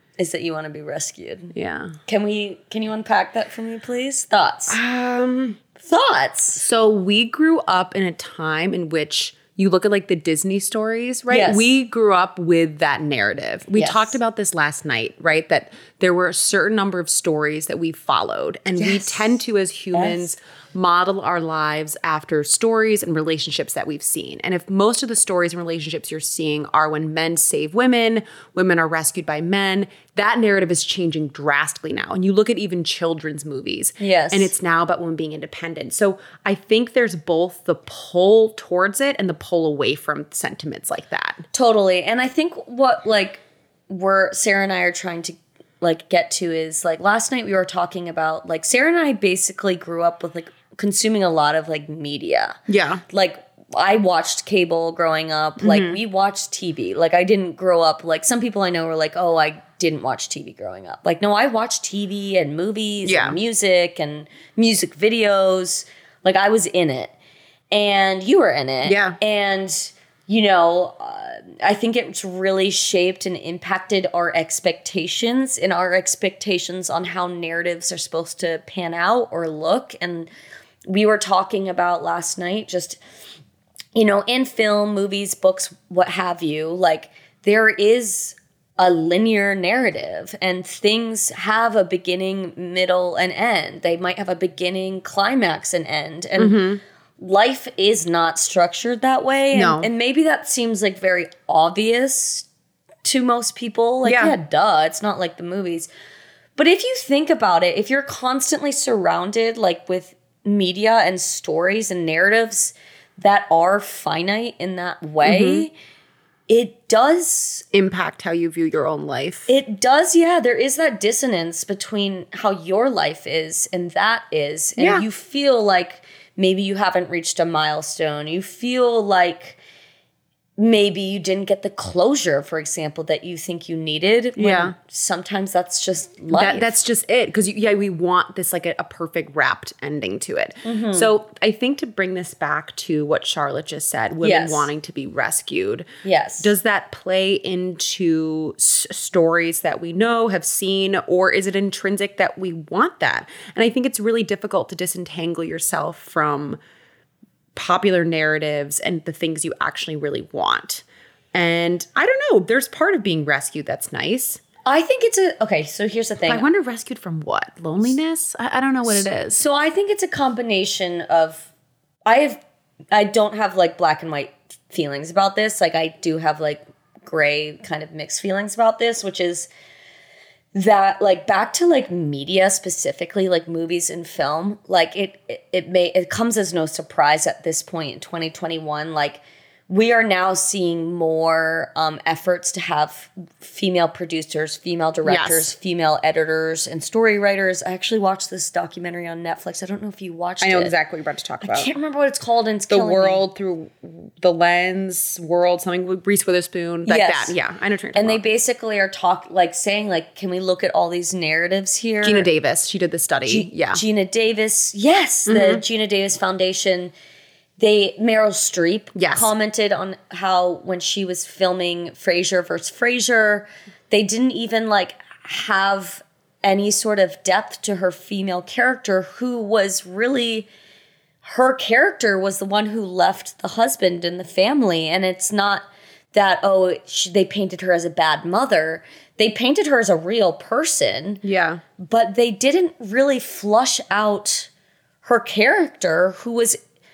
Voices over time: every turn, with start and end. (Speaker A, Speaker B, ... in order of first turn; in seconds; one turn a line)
Speaker A: 0.2-1.5
Speaker B: 1.5-1.9
Speaker A: 2.1-4.8
Speaker B: 4.7-5.6
Speaker A: 5.8-6.7
Speaker B: 6.6-41.5
Speaker A: 11.3-11.8
Speaker A: 13.8-14.2
Speaker A: 18.8-19.4
Speaker A: 19.9-20.3
Speaker A: 34.0-34.5
Speaker A: 41.5-52.6
Speaker B: 52.7-53.0
Speaker A: 53.1-67.1
Speaker B: 55.6-56.0
Speaker B: 63.0-63.4
Speaker A: 67.7-80.3
Speaker B: 68.8-69.2
Speaker A: 80.9-83.0
Speaker A: 84.0-96.6
Speaker B: 96.4-96.8
Speaker A: 97.2-102.5
Speaker B: 99.5-99.9
Speaker A: 103.0-105.9
Speaker B: 104.0-104.4
Speaker A: 106.6-115.7
Speaker B: 115.2-115.7
Speaker A: 116.5-117.7
Speaker B: 117.7-119.5
Speaker A: 119.5-129.6
Speaker B: 124.8-125.1
Speaker A: 130.6-136.8
Speaker B: 134.4-134.8
Speaker B: 136.3-145.9
Speaker A: 140.6-141.1
Speaker A: 144.2-144.7
Speaker A: 146.0-146.5
Speaker B: 146.4-156.6
Speaker B: 157.6-164.4
Speaker A: 164.7-166.5
Speaker B: 166.3-169.4
Speaker A: 168.9-171.5
Speaker A: 172.1-172.4
Speaker A: 172.9-179.5
Speaker A: 180.5-200.8
Speaker B: 195.1-195.5
Speaker B: 200.4-201.7
Speaker A: 201.4-203.2
Speaker B: 202.7-208.2
Speaker A: 206.9-207.4
Speaker A: 207.9-212.3
Speaker B: 212.0-213.8
Speaker A: 213.3-216.9
Speaker B: 215.3-215.6
Speaker A: 217.6-230.5
Speaker B: 218.9-219.3
Speaker A: 231.2-241.2
Speaker B: 241.2-241.6
Speaker A: 241.8-244.5
Speaker A: 245.0-246.6